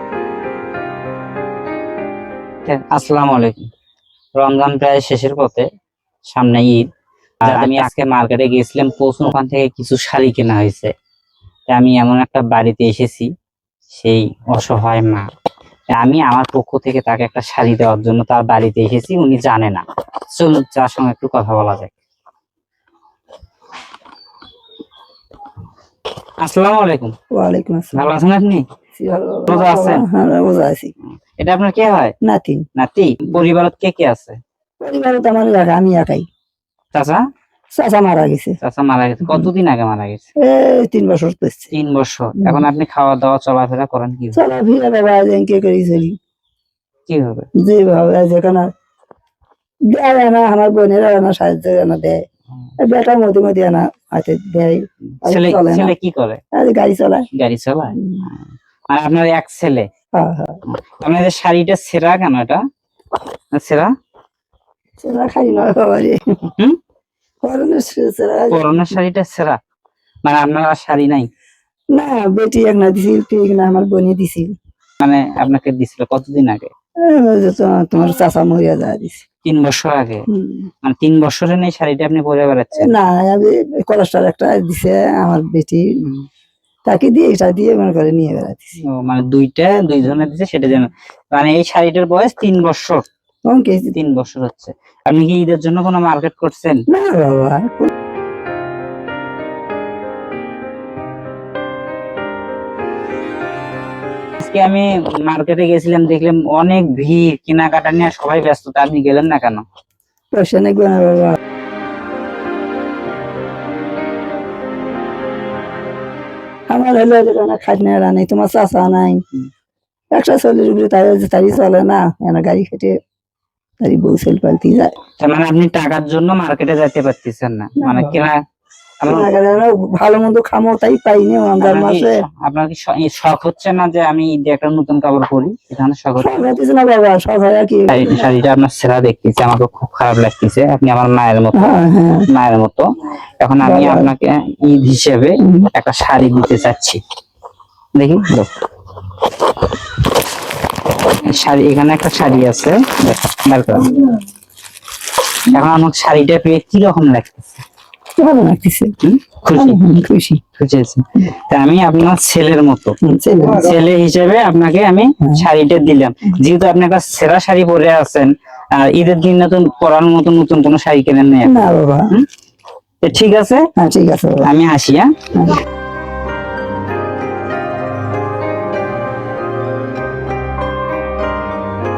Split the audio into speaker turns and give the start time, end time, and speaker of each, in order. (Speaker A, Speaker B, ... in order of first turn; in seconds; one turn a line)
Speaker A: 2.7-3.6
Speaker A: 4.4-5.7
Speaker A: 6.3-6.9
Speaker A: 7.4-10.9
Speaker A: 11.7-13.3
Speaker A: 13.9-15.3
Speaker A: 15.9-21.9
Speaker A: 26.4-27.1
Speaker B: 27.3-28.1
Speaker A: 27.9-28.7
Speaker B: 29.0-30.9
Speaker A: 29.5-30.1
Speaker A: 31.4-32.1
Speaker B: 32.2-32.6
Speaker A: 32.8-34.4
Speaker B: 34.8-36.3
Speaker A: 36.9-37.2
Speaker B: 37.8-38.6
Speaker A: 38.6-40.3
Speaker B: 40.4-41.7
Speaker A: 41.7-44.4
Speaker B: 42.4-42.7
Speaker B: 44.3-46.2
Speaker A: 47.1-47.5
Speaker B: 47.6-48.7
Speaker B: 49.9-52.2
Speaker B: 52.8-55.9
Speaker A: 55.2-56.4
Speaker B: 56.5-57.3
Speaker A: 57.3-58.4
Speaker B: 58.0-58.3
Speaker A: 58.9-59.9
Speaker B: 60.1-60.6
Speaker A: 60.7-62.6
Speaker A: 63.5-63.9
Speaker B: 65.0-66.2
Speaker B: 67.4-68.8
Speaker A: 68.5-69.6
Speaker A: 70.2-71.3
Speaker B: 72.0-74.5
Speaker A: 75.0-76.7
Speaker B: 77.0-79.2
Speaker A: 79.5-80.3
Speaker B: 80.3-80.7
Speaker A: 80.8-82.9
Speaker B: 82.8-85.8
Speaker A: 86.0-86.3
Speaker B: 86.9-88.8
Speaker A: 88.8-93.1
Speaker B: 93.5-94.0
Speaker A: 93.9-96.8
Speaker B: 96.9-97.9
Speaker A: 104.4-109.6
Speaker B: 110.3-111.4
Speaker B: 116.7-119.2
Speaker B: 120.1-123.0
Speaker B: 123.8-124.9
Speaker A: 125.2-128.4
Speaker B: 127.8-128.2
Speaker A: 129.0-129.3
Speaker B: 129.1-132.2
Speaker A: 131.6-136.4
Speaker B: 136.2-138.3
Speaker A: 137.9-142.9
Speaker B: 141.6-142.3
Speaker A: 143.4-147.0
Speaker B: 143.6-144.1
Speaker B: 145.4-145.7
Speaker A: 147.9-148.5
Speaker A: 151.2-153.9
Speaker B: 153.8-154.1
Speaker A: 155.5-157.6
Speaker B: 158.2-158.9
Speaker A: 159.0-159.8
Speaker B: 159.5-160.4
Speaker A: 160.6-172.3
Speaker B: 163.0-163.8
Speaker B: 165.2-165.5
Speaker B: 171.4-172.1
Speaker A: 173.0-173.7
Speaker B: 173.8-174.4
Speaker A: 174.4-175.1